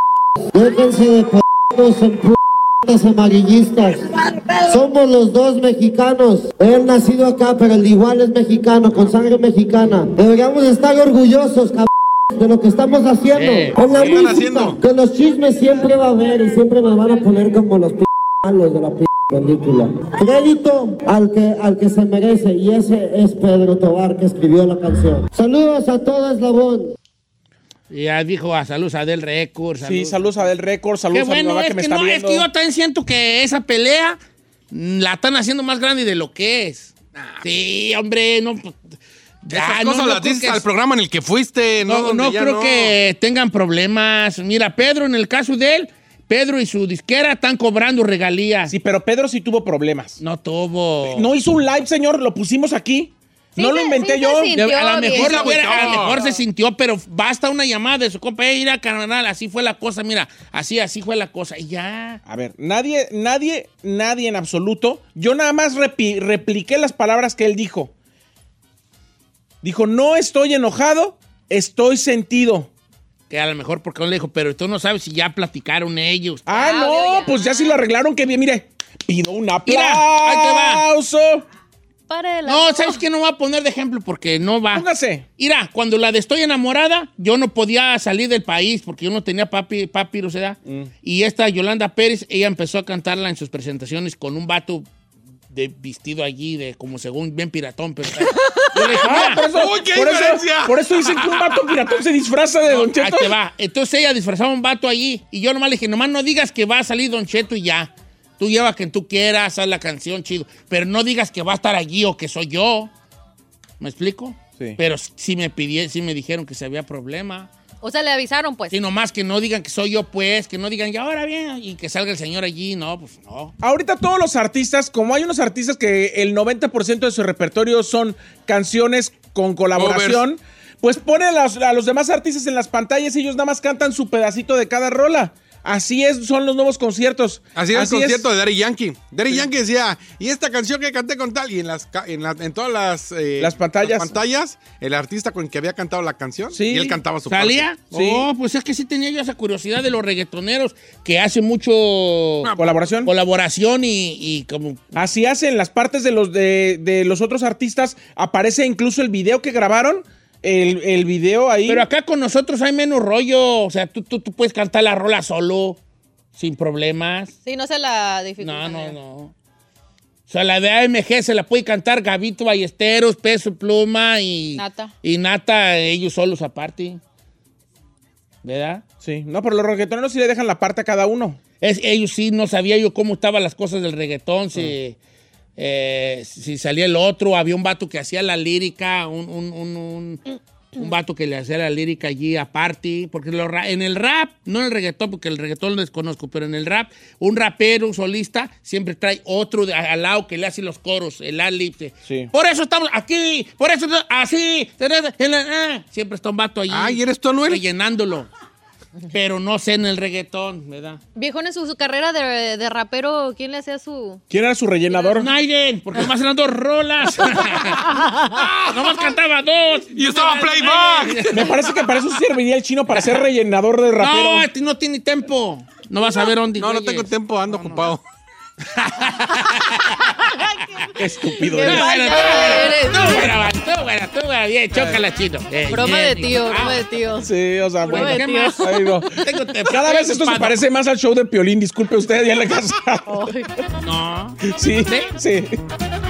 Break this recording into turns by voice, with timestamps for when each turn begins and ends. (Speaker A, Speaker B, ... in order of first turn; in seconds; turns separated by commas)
Speaker A: 0.5-26.9, Speaker B: 13.3-14.2, Speaker C: 13.8-14.8, Speaker B: 27.9-30.2, Speaker D: 29.8-32.5, Speaker B: 31.1-34.2, Speaker B: 34.7-38.8, Speaker C: 37.1-37.5, Speaker B: 39.4-40.6, Speaker C: 39.5-42.9, Speaker B: 41.8-48.7, Speaker D: 48.7-50.2, Speaker B: 50.2-51.3, Speaker D: 51.1-54.7, Speaker E: 53.5-56.2, Speaker B: 54.5-62.2, Speaker C: 55.1-56.2, Speaker D: 62.2-67.9, Speaker D: 69.6-72.7, Speaker B: 73.3-76.5, Speaker D: 76.5-81.4, Speaker E: 76.5-77.8, Speaker B: 79.7-80.8, Speaker E: 82.1-83.0, Speaker B: 82.5-84.8, Speaker D: 84.7-85.2, Speaker B: 85.4-94.9, Speaker D: 90.7-90.9, Speaker B: 95.5-99.4, Speaker D: 98.9-103.3, Speaker C: 99.2-101.7, Speaker B: 102.7-112.9, Speaker B: 113.8-117.5, Speaker E: 117.8-118.7, Speaker B: 118.7-123.5, Speaker D: 123.6-138.3, Speaker C: 129.7-130.2, Speaker C: 137.5-147.8, Speaker D: 143.4-144.1, Speaker D: 146.5-147.0, Speaker B: 147.3-154.8, Speaker D: 147.9-148.3, Speaker C: 152.4-152.8, Speaker D: 152.6-153.1, Speaker D: 154.9-161.8, Speaker B: 161.7-165.8, Speaker B: 166.3-167.3, Speaker E: 167.4-168.9, Speaker B: 168.4-169.3, Speaker B: 170.3-177.0, Speaker E: 174.6-174.9, Speaker B: 178.4-178.8, Speaker D: 179.0-181.4, Speaker B: 181.6-185.0, Speaker B: 185.6-190.2, Speaker B: 190.7-208.3, Speaker C: 206.7-207.6, Speaker B: 209.1-211.0, Speaker E: 211.1-214.2, Speaker D: 214.3-215.3, Speaker B: 215.1-221.5, Speaker C: 218.3-218.7, Speaker C: 219.9-221.7, Speaker D: 221.3-224.5, Speaker B: 224.0-227.9, Speaker C: 226.6-228.0, Speaker B: 228.7-230.9, Speaker D: 231.0-232.7, Speaker E: 231.4-233.4, Speaker B: 231.6-236.8, Speaker E: 235.7-239.0, Speaker D: 237.2-243.1, Speaker B: 237.8-240.6, Speaker E: 243.1-243.5, Speaker B: 243.8-245.1, Speaker D: 244.4-245.6